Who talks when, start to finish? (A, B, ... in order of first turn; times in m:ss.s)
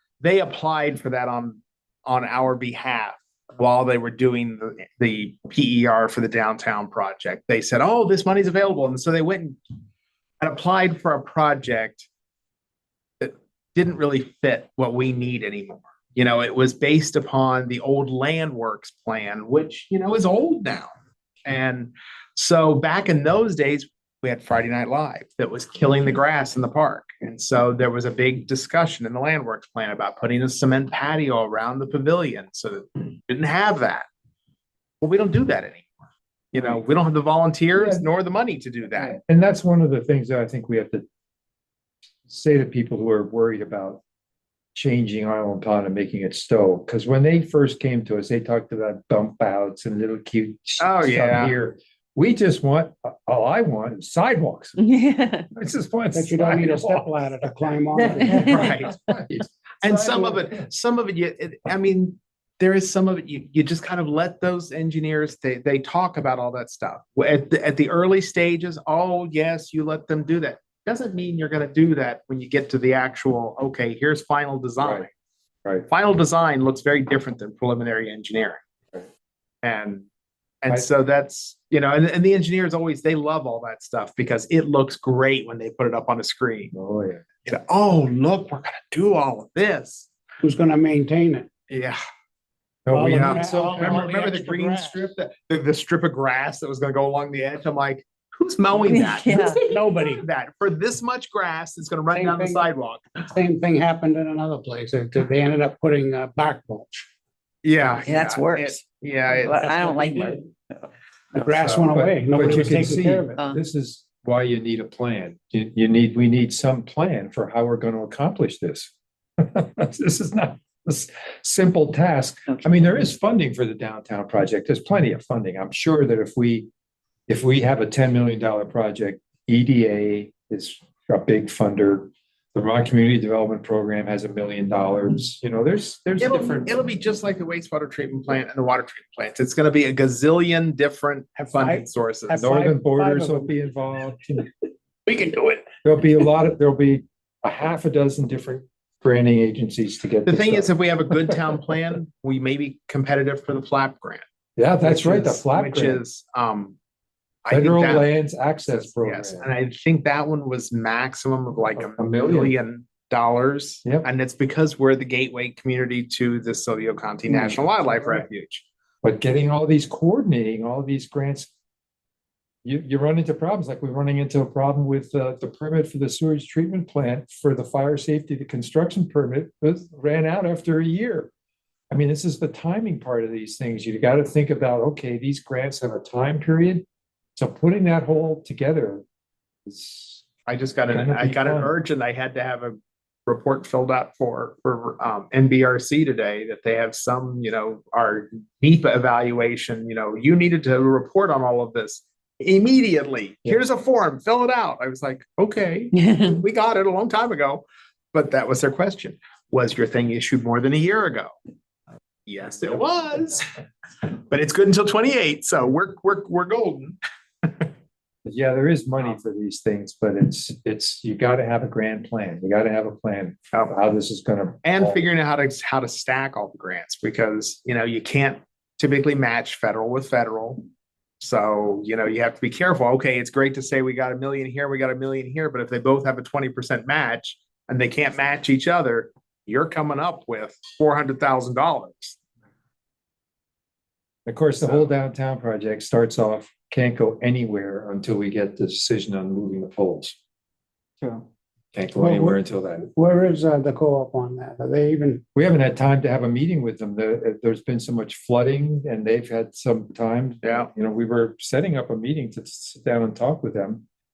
0:00.2-0:09.6 A
0:10.4-0:12.1 A
0:13.2-0:20.9 A
0:21.4-0:34.0 A
0:35.0-0:35.9 A
0:36.5-0:39.2 A
0:36.5-0:36.8 B
0:37.7-0:38.1 B
0:39.0-0:41.0 B
0:42.3-0:44.0 B
0:44.7-0:54.8 B
0:50.8-0:51.6 A
0:54.8-0:55.5 C
0:55.5-1:00.6 B
0:56.1-0:58.6 D
0:58.0-0:58.7 C
0:58.4-0:59.0 A
0:59.8-1:15.1 A
1:14.8-1:15.1 B
1:15.9-1:18.6 A
1:19.6-1:20.1 A
1:20.6-1:26.7 A
1:26.7-1:27.2 B
1:27.4-1:30.1 A
1:30.4-1:31.5 D
1:31.7-1:32.0 A
1:32.8-1:34.0 B
1:32.9-1:35.1 D
1:33.0-1:43.2 A
1:38.8-1:39.6 C
1:39.7-1:40.2 D
1:42.1-1:42.6 D
1:43.2-1:47.0 D
1:47.6-1:50.0 A
1:48.1-1:48.8 C
1:49.4-1:50.4 C
1:49.7-1:50.4 D
1:51.3-1:53.4 D
1:51.4-2:06.7 B
2:07.3-2:16.8 B
2:16.2-2:22.5 A
2:21.4-2:23.6 D
2:22.3-2:24.5 B
2:25.1-2:25.7 A
2:25.8-2:31.5 B
2:30.2-2:34.2 A
2:34.6-2:36.0 B
2:34.8-2:36.8 A
2:37.4-2:38.1 A
2:37.5-2:39.5 B
2:38.7-2:48.6 A
2:41.8-2:42.5 B
2:47.3-2:48.2 B
2:49.0-2:51.5 B
2:52.6-3:01.3 B
3:01.9-3:09.0 B
3:09.6-3:10.2 B
3:10.5-3:31.3 A
3:10.9-3:11.7 B
3:25.9-3:26.3 C
3:32.3-3:33.4 A
3:34.0-3:37.7 A
3:38.2-3:45.0 B
3:44.6-3:50.7 A
3:51.2-4:02.2 A
4:04.2-4:10.2 B
4:04.6-4:04.9 A
4:11.0-4:12.9 B
4:12.0-4:15.2 D
4:15.3-4:23.8 B
4:20.4-4:20.7 A